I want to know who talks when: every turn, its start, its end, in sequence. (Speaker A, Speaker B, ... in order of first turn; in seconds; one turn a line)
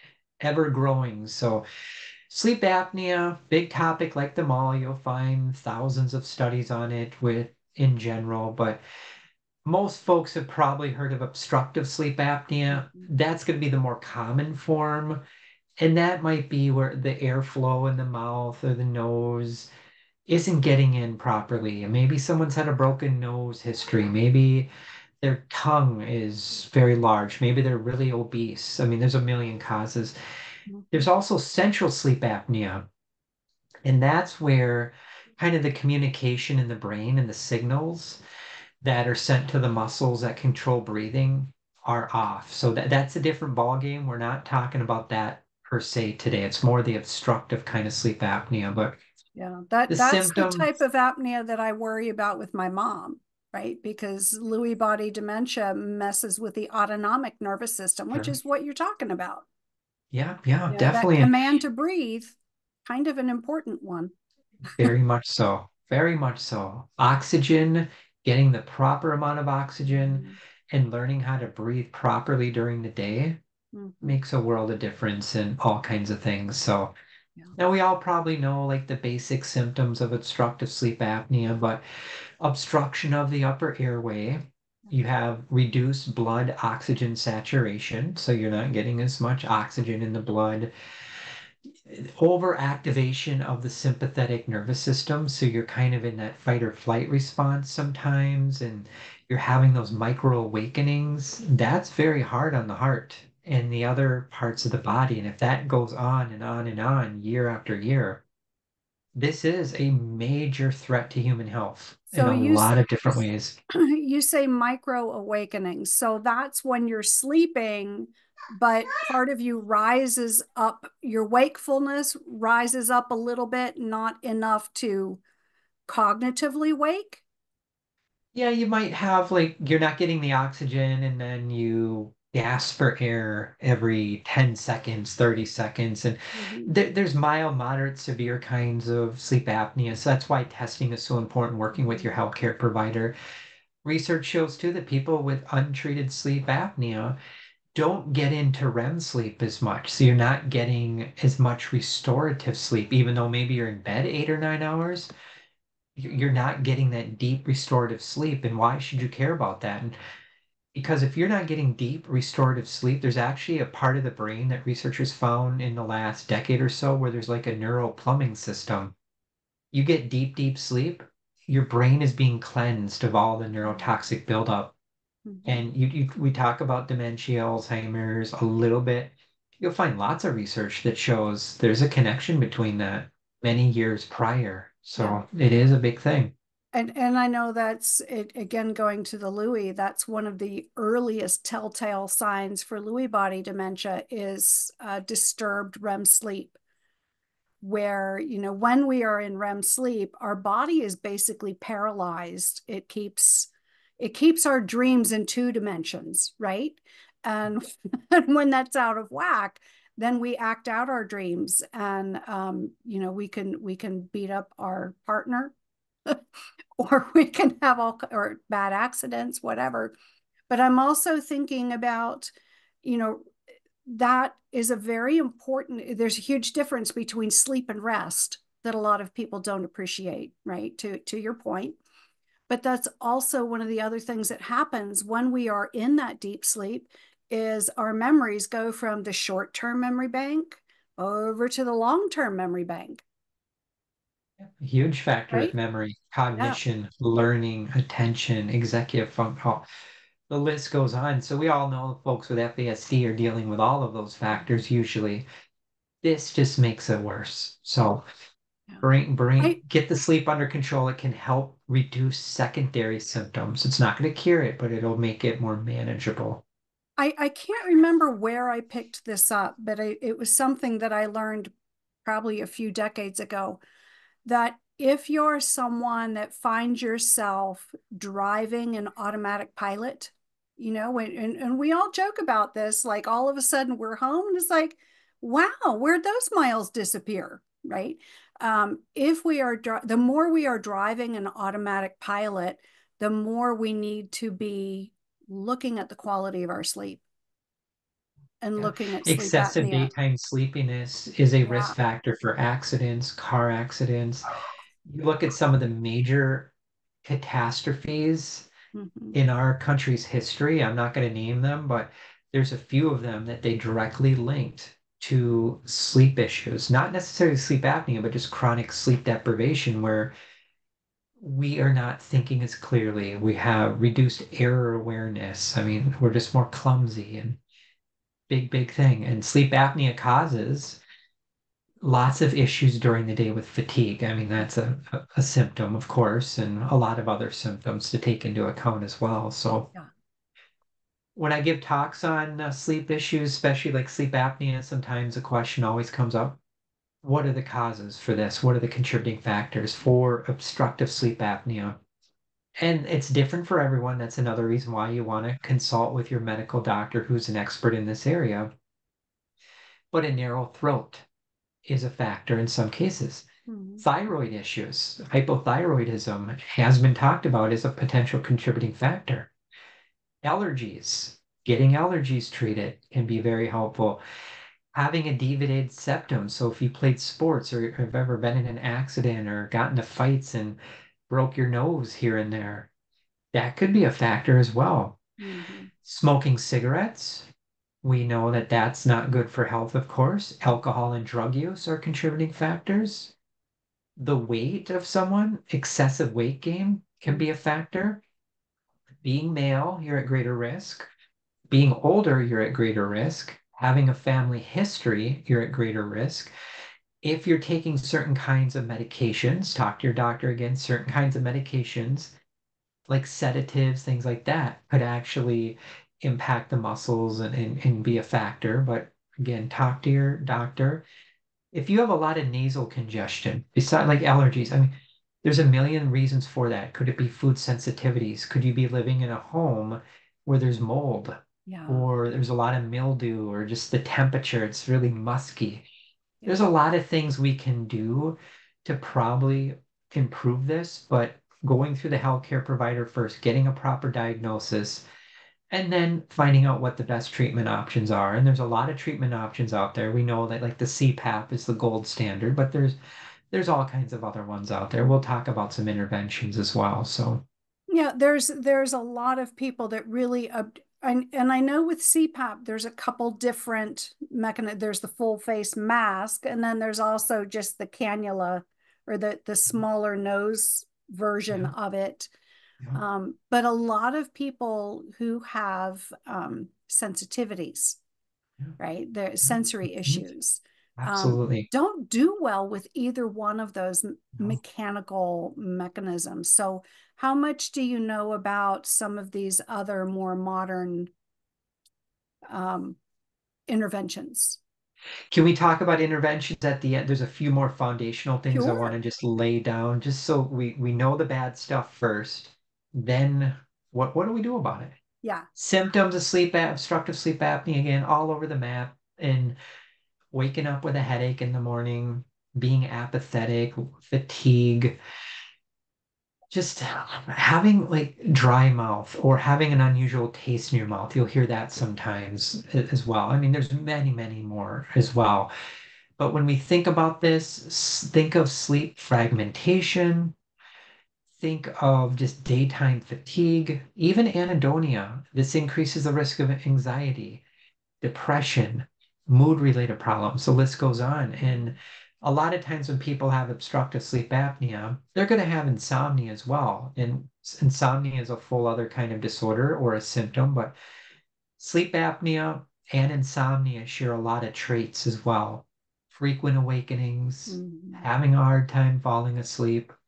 Speaker A: 0.4-1.6
Speaker A: 2.3-8.8
Speaker A: 9.6-15.2
Speaker B: 12.7-13.1
Speaker A: 15.8-19.7
Speaker A: 20.3-24.7
Speaker A: 25.2-30.1
Speaker B: 30.7-31.1
Speaker A: 30.9-32.9
Speaker A: 33.8-38.2
Speaker A: 38.8-49.0
Speaker B: 49.4-59.5
Speaker A: 49.9-50.7
Speaker A: 60.1-61.4
Speaker B: 60.7-64.1
Speaker A: 64.6-73.4
Speaker B: 69.9-70.4
Speaker B: 73.7-74.2
Speaker A: 74.0-76.9
Speaker A: 77.5-81.8
Speaker A: 82.4-90.7
Speaker A: 91.8-108.2
Speaker A: 109.1-113.6
Speaker B: 112.1-113.1
Speaker B: 113.7-125.2
Speaker B: 125.9-127.2
Speaker A: 128.3-143.1
Speaker B: 136.3-136.7
Speaker B: 141.8-142.2
Speaker A: 143.8-147.2
Speaker A: 147.7-155.1
Speaker A: 156.0-160.0
Speaker A: 160.7-168.9
Speaker A: 169.7-174.7
Speaker B: 173.6-173.9
Speaker B: 175.2-175.6
Speaker A: 175.4-186.3
Speaker B: 185.0-185.2
Speaker B: 186.7-196.6
Speaker B: 197.6-215.5
Speaker B: 216.8-219.9
Speaker B: 220.5-222.3
Speaker B: 222.8-223.3
Speaker B: 223.8-231.8
Speaker B: 232.5-243.0
Speaker A: 244.4-249.6
Speaker B: 246.3-246.6
Speaker A: 250.3-255.2
Speaker A: 256.0-258.0
Speaker A: 258.8-266.4
Speaker B: 267.0-271.5
Speaker B: 272.0-273.6
Speaker B: 274.2-297.0
Speaker B: 298.4-299.9
Speaker A: 298.6-304.3
Speaker B: 301.4-301.8
Speaker A: 304.8-306.5
Speaker A: 307.0-308.5
Speaker B: 308.7-309.1
Speaker A: 309.1-320.1
Speaker A: 321.2-327.4
Speaker A: 328.3-330.8
Speaker A: 331.8-339.7
Speaker A: 341.1-346.4
Speaker A: 347.0-351.8
Speaker A: 352.6-358.5
Speaker A: 359.9-361.0
Speaker A: 361.6-363.2
Speaker B: 363.5-363.8
Speaker A: 363.8-369.3
Speaker A: 370.2-374.0
Speaker A: 374.7-380.6
Speaker A: 381.1-382.7
Speaker A: 383.3-385.0
Speaker B: 385.2-385.7
Speaker A: 385.8-387.3
Speaker A: 387.8-393.1
Speaker A: 394.0-398.0
Speaker A: 399.0-400.9
Speaker A: 401.5-406.3
Speaker A: 407.0-412.1
Speaker A: 412.9-420.8
Speaker A: 421.5-435.6
Speaker B: 431.5-431.9
Speaker A: 436.2-444.8
Speaker A: 445.5-452.8
Speaker A: 453.3-457.2
Speaker B: 457.7-472.1
Speaker B: 472.7-477.8
Speaker B: 478.6-490.9
Speaker A: 480.8-481.5
Speaker B: 492.3-492.8
Speaker B: 493.5-494.4
Speaker A: 495.1-504.8
Speaker B: 498.3-498.7
Speaker B: 505.0-505.3
Speaker A: 505.4-509.4
Speaker A: 510.1-514.8
Speaker A: 516.3-525.3
Speaker A: 526.0-530.1
Speaker A: 531.2-537.2
Speaker A: 537.8-550.5
Speaker B: 541.2-541.5
Speaker A: 551.4-559.7
Speaker B: 557.3-557.9